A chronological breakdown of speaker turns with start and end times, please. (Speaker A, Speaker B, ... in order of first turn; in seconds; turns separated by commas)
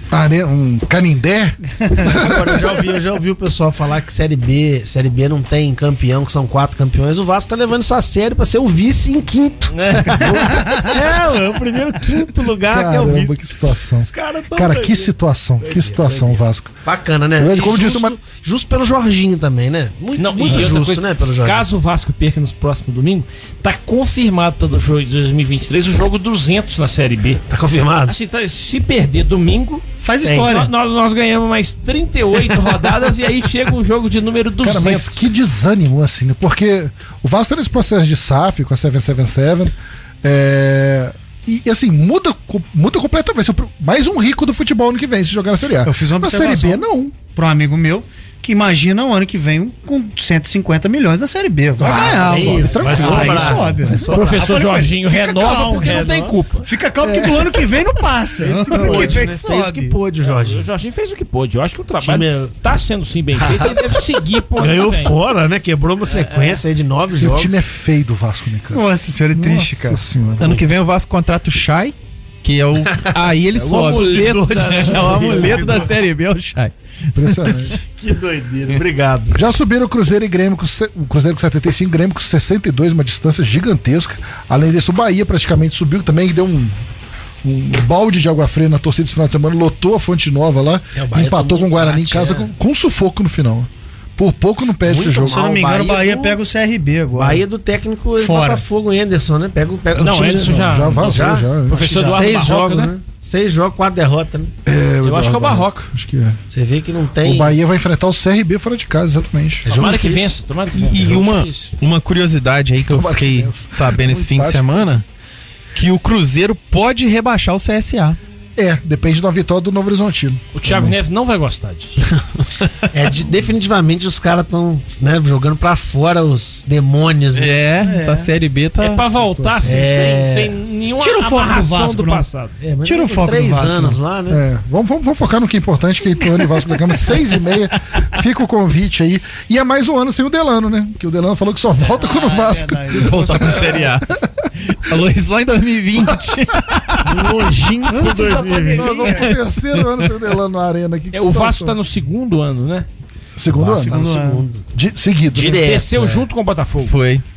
Speaker A: 0.1-2.8, Speaker B: 2.0-13.4, Speaker C: 9.7-10.3, Speaker A: 12.7-16.7, Speaker B: 14.0-21.7, Speaker A: 17.4-18.2, Speaker C: 20.2-27.4, Speaker B: 27.5-28.1, Speaker C: 28.1-29.8, Speaker D: 30.0-30.7, Speaker B: 30.2-30.5, Speaker C: 30.4-35.2, Speaker A: 34.6-47.2, Speaker D: 45.8-56.1, Speaker A: 51.8-54.0, Speaker B: 51.8-54.5, Speaker C: 52.9-53.2, Speaker C: 54.1-56.7, Speaker B: 55.7-56.4, Speaker D: 56.6-60.0, Speaker A: 57.0-57.7, Speaker B: 58.4-60.7, Speaker A: 58.7-59.2, Speaker C: 60.2-65.2, Speaker B: 62.0-62.5, Speaker B: 63.4-64.0, Speaker B: 64.6-67.6, Speaker C: 66.1-66.6, Speaker A: 67.2-70.6, Speaker D: 68.7-70.0, Speaker E: 70.4-77.8, Speaker C: 73.5-75.7, Speaker B: 73.8-75.9, Speaker D: 75.0-75.9, Speaker A: 77.2-77.8, Speaker B: 78.0-79.4, Speaker A: 79.3-86.8, Speaker A: 87.4-95.4, Speaker B: 91.0-92.5, Speaker B: 94.8-96.4, Speaker D: 95.3-97.4, Speaker B: 97.2-104.5, Speaker D: 98.2-98.6, Speaker C: 100.0-102.9, Speaker A: 100.4-101.9, Speaker D: 101.9-102.8, Speaker A: 104.7-106.4, Speaker C: 105.0-105.9, Speaker B: 106.5-107.5, Speaker A: 107.2-109.7, Speaker B: 109.7-110.4, Speaker C: 109.7-111.3, Speaker E: 110.8-115.0, Speaker B: 110.9-111.7, Speaker A: 112.8-114.9, Speaker E: 115.8-118.2, Speaker A: 118.6-120.9, Speaker C: 120.5-122.0, Speaker B: 122.9-127.6, Speaker E: 127.3-129.1, Speaker D: 127.8-128.3, Speaker C: 128.8-132.5, Speaker A: 129.2-129.8, Speaker B: 129.6-130.7, Speaker D: 131.0-132.3, Speaker B: 132.6-134.4, Speaker D: 132.8-134.0, Speaker A: 134.3-144.1, Speaker D: 141.8-143.4, Speaker E: 142.9-147.3, Speaker B: 147.0-149.2, Speaker D: 147.9-149.3, Speaker A: 148.7-151.8, Speaker C: 151.1-152.9, Speaker A: 153.4-154.0, Speaker B: 153.6-154.6, Speaker D: 153.7-154.4, Speaker A: 154.7-155.7, Speaker B: 155.3-156.3, Speaker C: 155.4-156.9, Speaker E: 156.8-157.2